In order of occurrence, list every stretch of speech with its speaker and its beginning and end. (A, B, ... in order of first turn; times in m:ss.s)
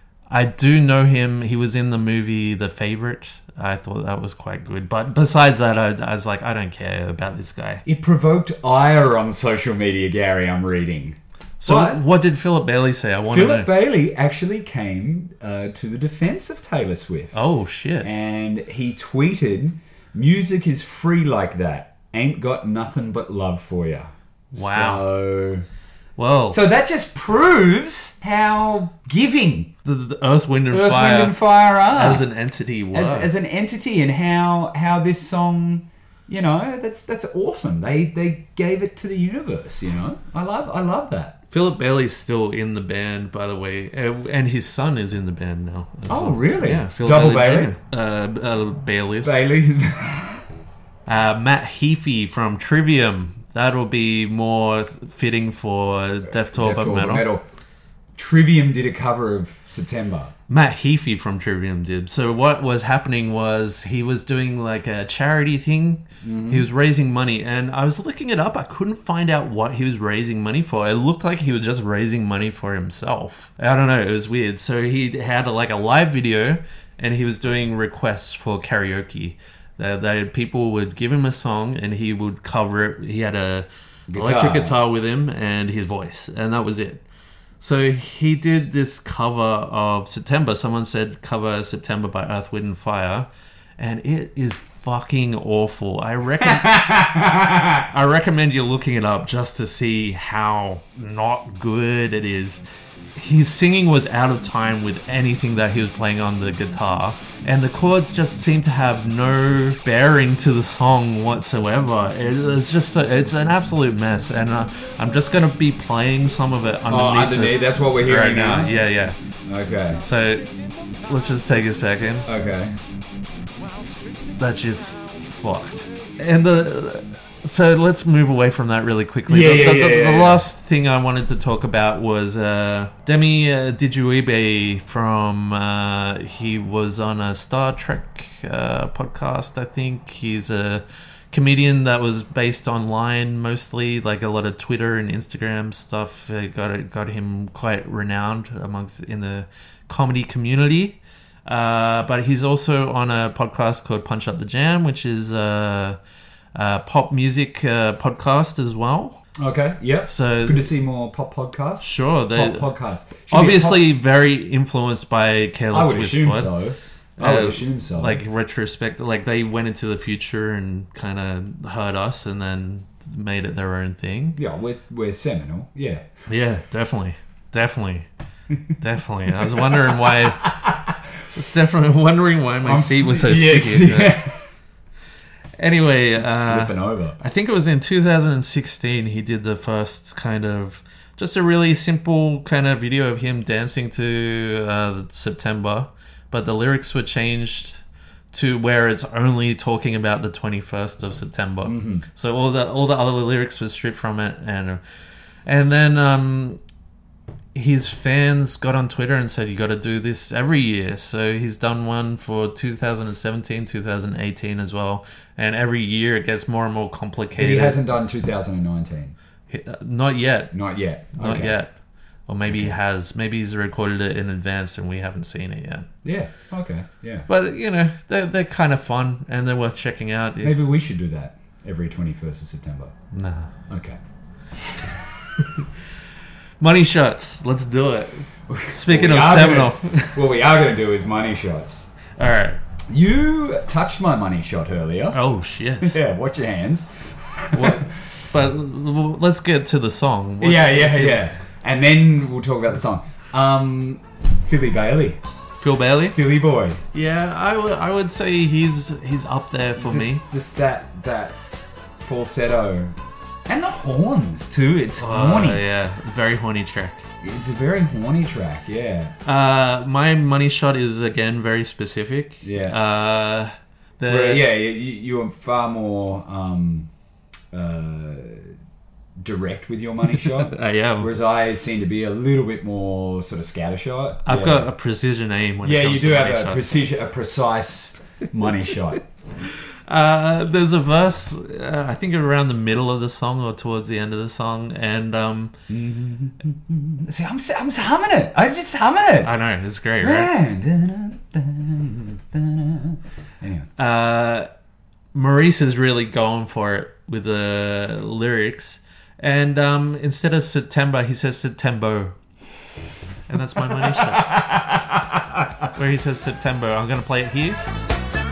0:00.3-0:07.8 A
0:07.8-0:12.0 B
0:11.6-0:13.7 A
0:13.2-0:17.4 B
0:17.3-0:18.1 A
0:18.0-0:25.6 B
0:24.5-0:25.0 A
0:26.2-0:26.6 A
0:26.5-0:29.7 B
0:29.8-0:33.3 A
0:30.7-0:32.2 B
0:32.9-0:41.4 B
0:41.5-0:49.4 A
0:46.1-0:47.7 B
0:49.2-0:50.4 B
0:51.1-0:57.2 A
0:56.3-0:57.4 B
0:58.1-1:00.3 B
1:00.5-1:27.0 A
1:06.2-1:06.7 B
1:24.1-1:24.7 B
1:27.6-1:36.8 A
1:36.4-1:37.8 B
1:37.9-1:42.6 A
1:43.1-1:59.2 A
1:56.9-1:58.8 B
1:59.4-2:00.0 B
2:00.0-2:02.3 A
2:02.2-2:02.7 B
2:04.4-2:36.0 A
2:09.3-2:10.4 B
2:36.5-2:39.2 A
2:39.4-2:43.8 B
2:40.0-2:40.7 A
2:41.8-2:42.7 A
2:43.3-2:46.5 A
2:45.7-2:48.2 B
2:47.2-2:54.4 A
2:54.4-2:56.1 B
2:56.3-2:58.1 A
2:58.7-3:00.6 A
2:59.7-3:00.9 B
3:01.3-3:04.2 A
3:02.6-3:04.4 B
3:05.6-3:24.8 A
3:06.2-3:07.2 B
3:21.6-3:22.0 B
3:25.4-3:26.6 A
3:27.5-3:37.8 A
3:37.4-3:39.1 B
3:39.5-3:40.5 A
3:40.5-3:41.6 B
3:41.2-3:41.7 A
3:42.3-3:45.9 A
3:42.5-3:42.8 B
3:46.0-3:47.3 B
3:47.3-3:50.6 A
3:50.4-3:52.9 B
3:53.1-3:53.5 A
3:53.7-3:54.0 B
3:56.6-4:00.2 A
3:58.5-4:01.9 B
4:02.2-4:02.6 A
4:02.9-4:05.2 B
4:05.1-4:06.0 A
4:05.8-4:07.9 B
4:07.5-4:11.3 A
4:10.4-4:15.2 B
4:15.6-4:16.2 A
4:16.1-4:16.8 B
4:16.9-4:20.2 A
4:19.8-4:21.4 B
4:22.0-4:23.0 B
4:23.5-4:25.6 B
4:25.0-4:27.0 A
4:27.2-4:29.1 B
4:29.2-4:34.5 A
4:32.4-4:32.8 B
4:34.1-4:36.9 B
4:37.5-4:38.5 B
4:39.2-4:44.7 B
4:40.1-4:41.1 A
4:44.2-4:46.6 A
4:45.6-4:49.0 B
4:49.9-4:55.5 A
4:55.7-4:59.3 B
4:59.2-5:00.3 A
5:00.0-5:03.7 B
5:03.8-5:04.5 A
5:05.1-5:12.2 A
5:13.3-5:14.5 A
5:13.6-5:15.7 B
5:15.7-5:17.6 A